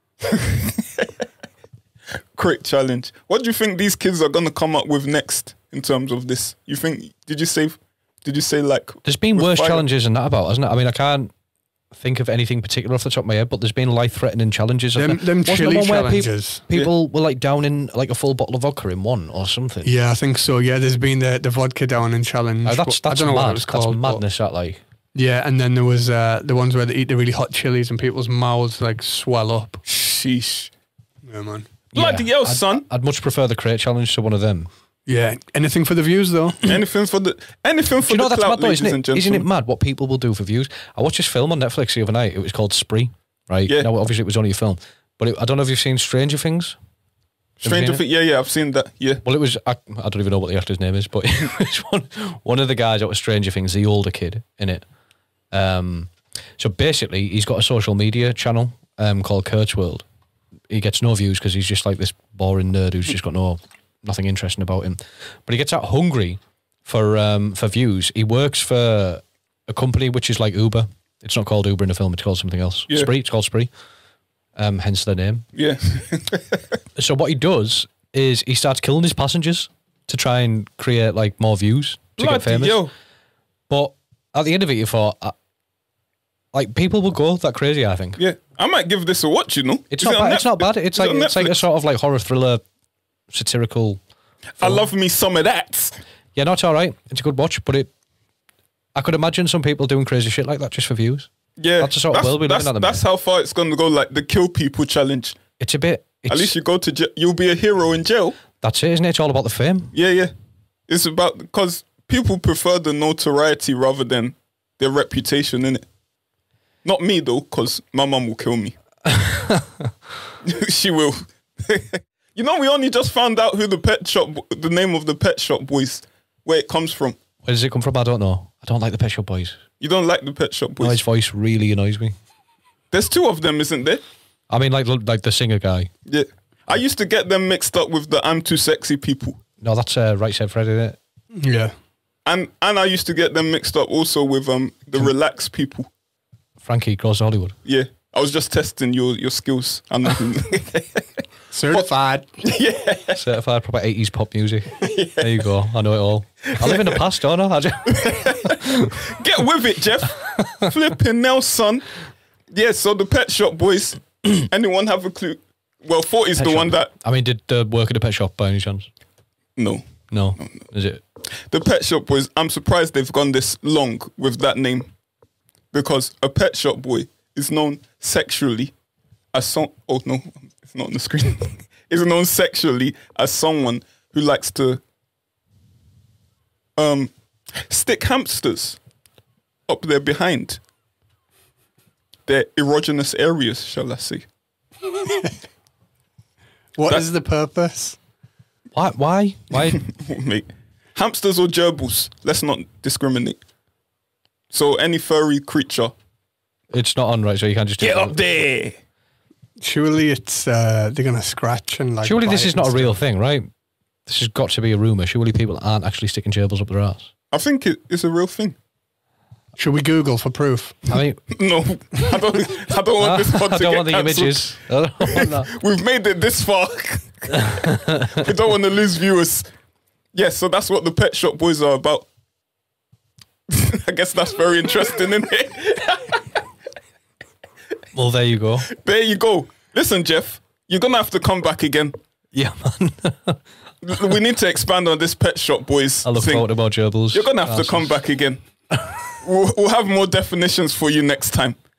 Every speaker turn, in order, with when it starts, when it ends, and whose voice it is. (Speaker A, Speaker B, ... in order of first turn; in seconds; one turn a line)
Speaker A: 0.2-1.1
Speaker A: 2.3-9.8
Speaker B: 9.0-11.3
Speaker B: 11.9-19.9
Speaker C: 14.9-16.6
Speaker C: 19.8-24.2
Speaker B: 22.6-24.8
Speaker C: 25.1-29.8
Speaker A: 29.9-30.7
Speaker C: 31.2-31.7
Speaker A: 31.9-32.9
Speaker B: 31.9-34.7
Speaker C: 35.1-36.6
Speaker A: 36.6-39.5
Speaker B: 38.1-46.8
Speaker A: 43.7-43.9
Speaker B: 47.6-48.0
Speaker A: 47.6-49.2
Speaker B: 49.2-54.9
Speaker B: 55.5-60.1
Speaker B: 60.7-73.7
Speaker B: 74.6-75.5
Speaker A: 75.5-76.6
Speaker B: 77.0-82.8
Speaker A: 82.2-82.9
Speaker B: 83.7-85.3
Speaker B: 86.5-88.2
Speaker A: 88.2-91.6
Speaker B: 89.9-92.6
Speaker B: 93.3-94.0
Speaker A: 94.6-96.0
Speaker B: 96.3-97.9
Speaker B: 99.0-103.0
Speaker A: 101.6-105.4
Speaker B: 105.6-106.5
Speaker A: 106.3-108.4
Speaker B: 108.6-109.9
Speaker A: 109.9-110.3
Speaker A: 110.9-115.9
Speaker A: 116.8-118.8
Speaker B: 119.1-119.9
Speaker A: 120.4-127.2
Speaker B: 127.4-129.6
Speaker A: 129.8-131.0
Speaker B: 130.8-132.2
Speaker A: 132.9-134.0
Speaker B: 134.5-135.9
Speaker A: 136.1-139.4
Speaker B: 139.6-141.0
Speaker C: 141.4-141.7
Speaker A: 142.2-145.9
Speaker B: 146.6-147.6
Speaker A: 147.7-151.9
Speaker C: 151.5-152.4
Speaker A: 152.4-153.2
Speaker B: 153.2-158.9
Speaker A: 154.8-155.4
Speaker A: 156.5-157.0
Speaker A: 157.9-161.8
Speaker B: 160.4-160.7
Speaker A: 162.5-166.9
Speaker B: 166.4-168.9
Speaker A: 169.6-169.9
Speaker B: 170.1-171.0
Speaker A: 171.4-174.9
Speaker A: 175.7-178.7
Speaker A: 179.3-184.8
Speaker A: 186.8-188.8
Speaker A: 189.7-190.6
Speaker A: 192.3-194.3
Speaker C: 196.8-198.0
Speaker B: 198.8-199.8
Speaker A: 199.5-203.4
Speaker A: 204.5-205.9
Speaker B: 206.7-208.2
Speaker A: 207.8-208.8
Speaker C: 209.6-213.0
Speaker B: 212.0-213.5
Speaker B: 214.1-217.1
Speaker A: 217.3-218.6
Speaker C: 219.6-220.9
Speaker B: 220.9-221.2
Speaker A: 221.3-229.5
Speaker B: 223.0-225.5
Speaker B: 227.3-228.2
Speaker A: 230.1-232.1
Speaker A: 233.5-236.4
Speaker B: 237.9-238.7
Speaker A: 238.7-242.0
Speaker B: 242.3-243.4
Speaker A: 243.8-246.5
Speaker B: 246.0-247.9
Speaker A: 247.1-248.4
Speaker A: 249.2-251.6